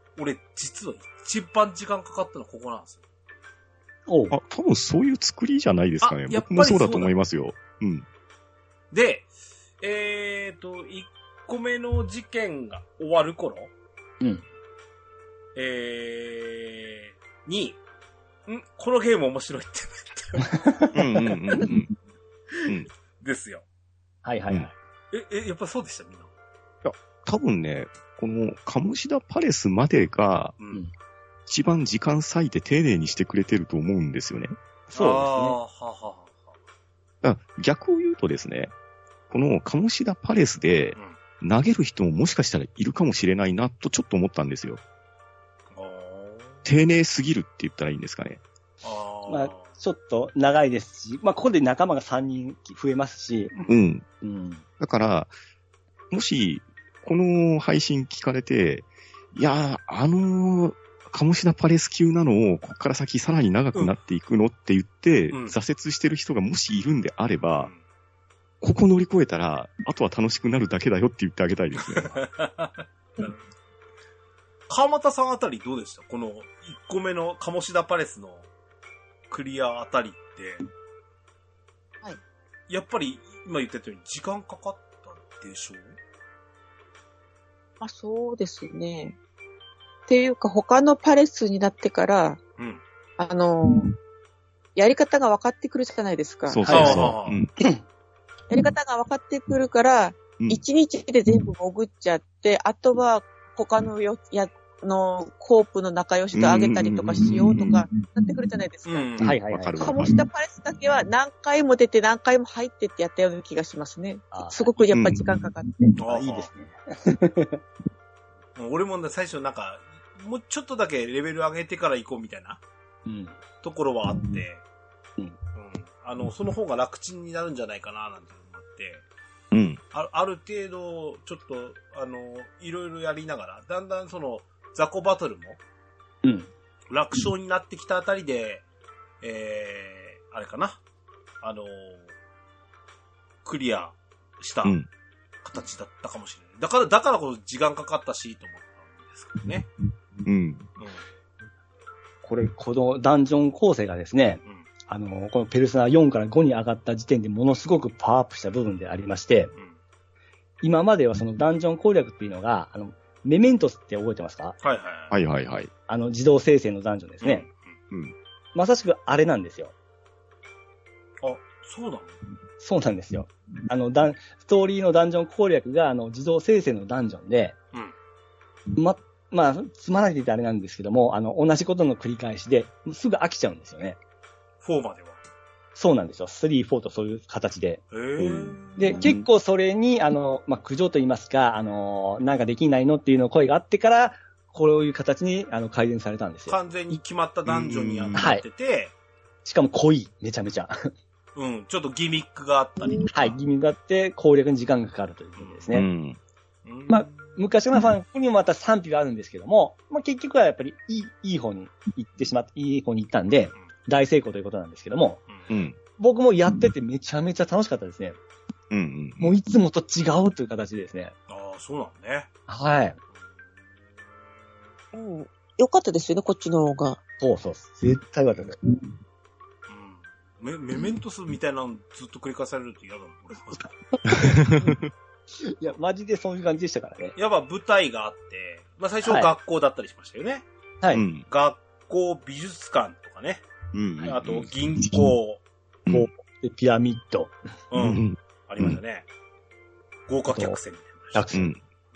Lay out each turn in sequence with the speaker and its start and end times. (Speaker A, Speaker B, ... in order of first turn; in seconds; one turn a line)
Speaker A: 0.1-3.0
Speaker B: 4.1-4.3
Speaker C: 4.3-8.1
Speaker A: 6.0-7.1
Speaker A: 8.9-9.3
Speaker A: 9.8-13.7
Speaker A: 15.5-17.8
Speaker A: 18.5-20.6
Speaker B: 20.5-20.8
Speaker C: 20.9-21.9
Speaker A: 23.2-23.6
Speaker B: 24.2-24.7
Speaker A: 25.1-26.3
Speaker C: 26.8-30.6
Speaker A: 30.6-30.8
Speaker C: 31.5-34.5
Speaker B: 34.9-35.6
Speaker A: 34.9-36.5
Speaker C: 37.2-38.7
Speaker C: 39.3-44.8
Speaker A: 45.7-46.6
Speaker C: 46.6-48.4
Speaker A: 48.8-49.7
Speaker B: 49.3-53.6
Speaker C: 53.7-54.0
Speaker B: 54.2-54.6
Speaker C: 54.8-55.3
Speaker C: 56.1-67.7
Speaker A: 65.3-65.6
Speaker C: 68.6-72.2
Speaker A: 71.9-73.4
Speaker A: 74.7-78.5
Speaker A: 79.3-80.6
Speaker A: 82.7-86.0
Speaker D: 87.8-89.2
Speaker D: 90.1-92.4
Speaker A: 92.6-92.8
Speaker D: 93.2-93.9
Speaker D: 94.7-96.6
Speaker C: 96.5-97.5
Speaker B: 96.6-97.8
Speaker A: 96.7-97.4
Speaker D: 98.5-109.2
Speaker C: 106.3-107.8
Speaker A: 108.8-109.3
Speaker C: 109.2-110.2
Speaker B: 109.2-109.9
Speaker D: 109.8-115.9
Speaker B: 114.3-114.9
Speaker C: 114.9-115.2
Speaker A: 116.0-116.5
Speaker B: 116.0-117.6
Speaker A: 118.5-122.6
Speaker B: 123.0-123.4
Speaker A: 123.6-124.6
Speaker A: 125.5-129.0
Speaker C: 129.5-129.8
Speaker A: 129.9-135.6
Speaker B: 136.2-136.5
Speaker A: 136.9-138.6
Speaker A: 139.2-140.8
Speaker A: 141.4-142.1
Speaker A: 143.4-144.8
Speaker A: 145.4-149.7
Speaker C: 150.2-150.7
Speaker A: 150.8-151.0
Speaker B: 152.2-159.5
Speaker B: 160.6-164.6
Speaker A: 164.6-165.1
Speaker C: 165.1-165.7
Speaker B: 165.9-167.4
Speaker A: 167.2-167.7
Speaker B: 168.5-169.7
Speaker A: 171.2-172.2
Speaker B: 172.6-177.6
Speaker B: 178.7-184.0
Speaker A: 184.6-185.2
Speaker B: 185.7-187.8
Speaker A: 187.9-189.1
Speaker C: 188.2-189.2
Speaker B: 188.8-197.0
Speaker A: 196.5-198.9
Speaker C: 197.4-198.3
Speaker B: 198.2-198.4
Speaker B: 199.4-200.7
Speaker A: 201.3-203.4
Speaker B: 203.1-205.9
Speaker A: 205.3-205.7
Speaker C: 205.7-206.2
Speaker A: 206.6-207.4
Speaker B: 206.9-215.2
Speaker C: 215.5-215.8
Speaker B: 216.0-218.2
Speaker C: 218.7-219.3
Speaker B: 219.2-221.1
Speaker A: 221.3-222.3
Speaker B: 222.5-223.0
Speaker D: 224.9-227.0
Speaker B: 227.2-228.6
Speaker A: 229.7-233.8
Speaker C: 234.1-234.9
Speaker B: 235.4-237.2
Speaker A: 237.2-240.4
Speaker B: 239.0-239.3
Speaker C: 240.9-241.2
Speaker A: 241.2-243.5
Speaker C: 243.7-244.5
Speaker A: 244.0-245.4
Speaker B: 245.9-247.3
Speaker A: 247.7-249.1
Speaker C: 247.8-248.8
Speaker A: 250.1-251.3
Speaker B: 250.3-250.6
Speaker B: 251.1-251.5
Speaker C: 251.3-251.6